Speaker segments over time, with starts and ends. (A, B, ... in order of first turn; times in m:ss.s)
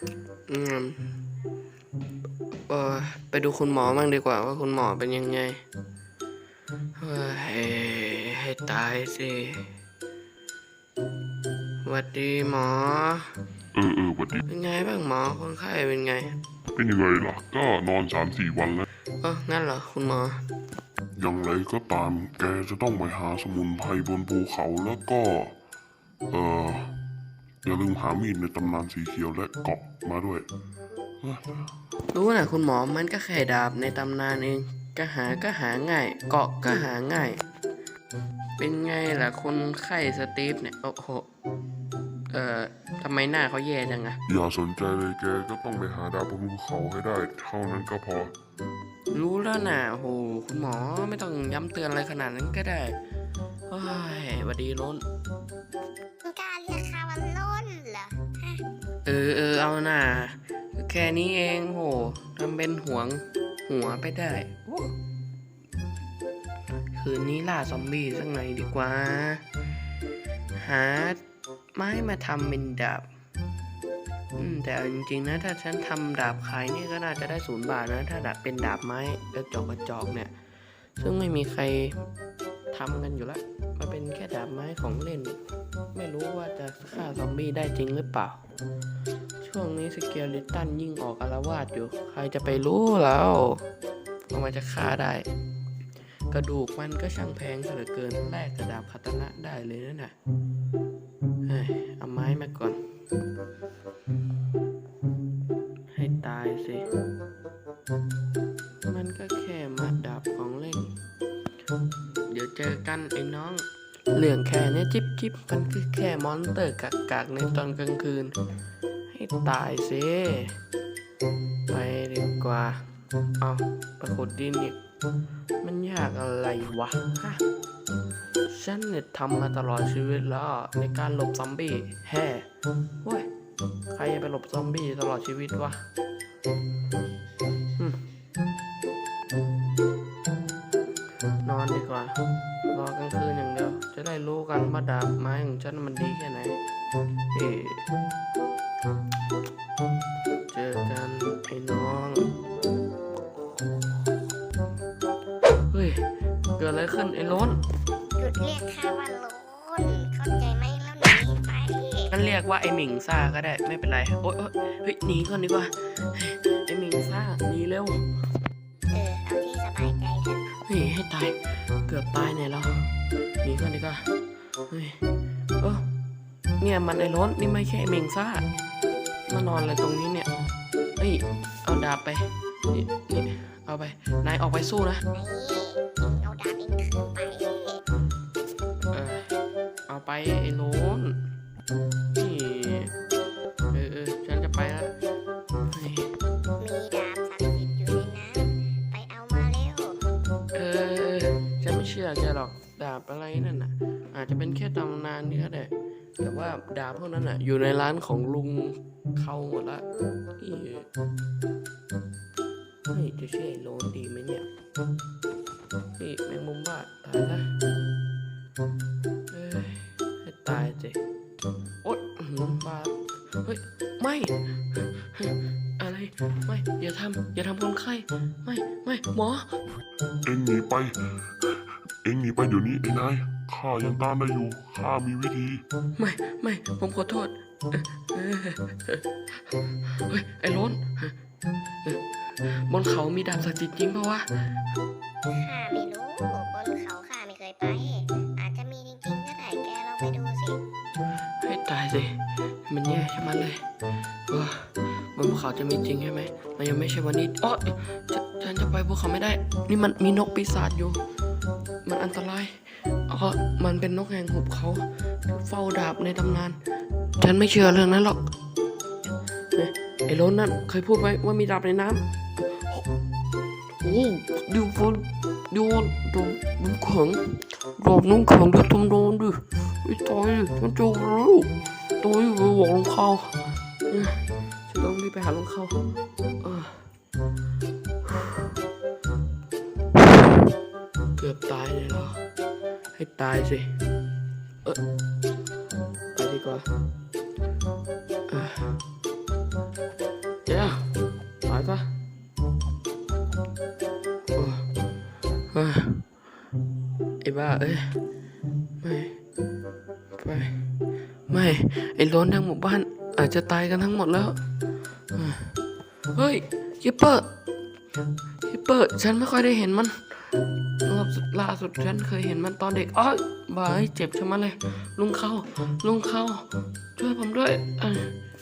0:00.5-0:01.2 A
0:02.7-0:05.6 A
0:07.0-0:09.7 A
0:11.8-0:13.4 A
0:13.7-0:14.4 B
0:14.5-0:16.4 A
0:16.8-0:18.8 B
0:19.2-0:20.4 A
0:21.2-0:25.6 B
0:26.3-0:27.0 B
0:27.6-0:30.5 B
0:31.2-0:31.7 B
0:32.1-0:37.4 A
0:38.6-0:41.3 A
0:42.3-0:44.2 A
0:44.3-0:48.3 B
0:49.1-0:53.0 A
0:53.7-0:55.0 A
0:56.2-0:58.6 C
0:59.0-1:04.9 A
1:06.9-1:09.4 A
1:10.6-1:11.2 A
1:11.8-1:13.1 A
1:14.3-1:20.3 A
1:21.0-1:22.0 A
1:22.7-1:25.4 A
1:25.9-1:28.4 A
1:29.4-1:33.6 A
1:34.3-1:35.3 A
1:36.3-1:40.1 A
1:41.4-1:42.8 A
1:45.9-1:46.9 A
1:48.8-1:50.9 A
1:52.2-1:58.4 A
1:59.1-2:00.5 A
2:01.7-2:02.9 A
2:03.4-2:04.8 A
2:05.6-2:07.4 A
2:08.5-2:12.5 A
2:13.9-2:15.8 A
2:17.8-2:18.0 A
2:21.4-2:26.6 A
2:27.3-2:27.9 A
2:30.5-2:32.3 A
2:35.7-2:37.6 A
2:38.2-2:42.1 C
2:42.1-2:48.1 A
2:48.9-2:50.4 C
2:50.6-2:54.1 A
2:54.7-2:55.0 A
2:55.6-2:55.8 A
2:56.6-2:58.5 A
2:59.3-3:00.3 A
3:01.0-3:05.0 A
3:05.1-3:07.8 C
3:08.9-3:09.3 A
3:09.9-3:11.2 A
3:12.2-3:12.9 A
3:13.7-3:15.0 A
3:15.7-3:16.1 A
3:16.6-3:20.0 C
3:20.5-3:29.8 A
3:30.4-3:30.9 A
3:32.9-3:34.5 A
3:36.0-3:37.6 A
3:39.3-3:41.0 A
3:41.8-3:49.5 A
3:50.2-3:55.6 B
3:56.0-4:01.2 A
4:01.8-4:04.5 A
4:05.3-4:10.6 C
4:11.4-4:13.6 A
4:14.3-4:21.0 A
4:21.8-4:26.6 A
4:27.2-4:28.2 A
4:29.5-4:32.9 A
4:33.8-4:45.8 A
4:46.4-4:46.8 A
4:48.0-4:48.4 A
4:51.1-4:52.2 A
4:52.9-4:53.8 A
4:56.1-4:56.7 A
4:58.3-4:58.7 A
5:00.4-5:00.9 A
5:01.4-5:01.9 A
5:04.3-5:04.7 A
5:05.5-5:06.1 A
5:07.2-5:08.0 A
5:08.8-5:09.2 A
5:10.1-5:10.6 A
5:11.3-5:14.4 A
5:15.1-5:15.5 A
5:16.1-5:17.3 A
5:18.4-5:20.2 A
5:20.8-5:28.1 A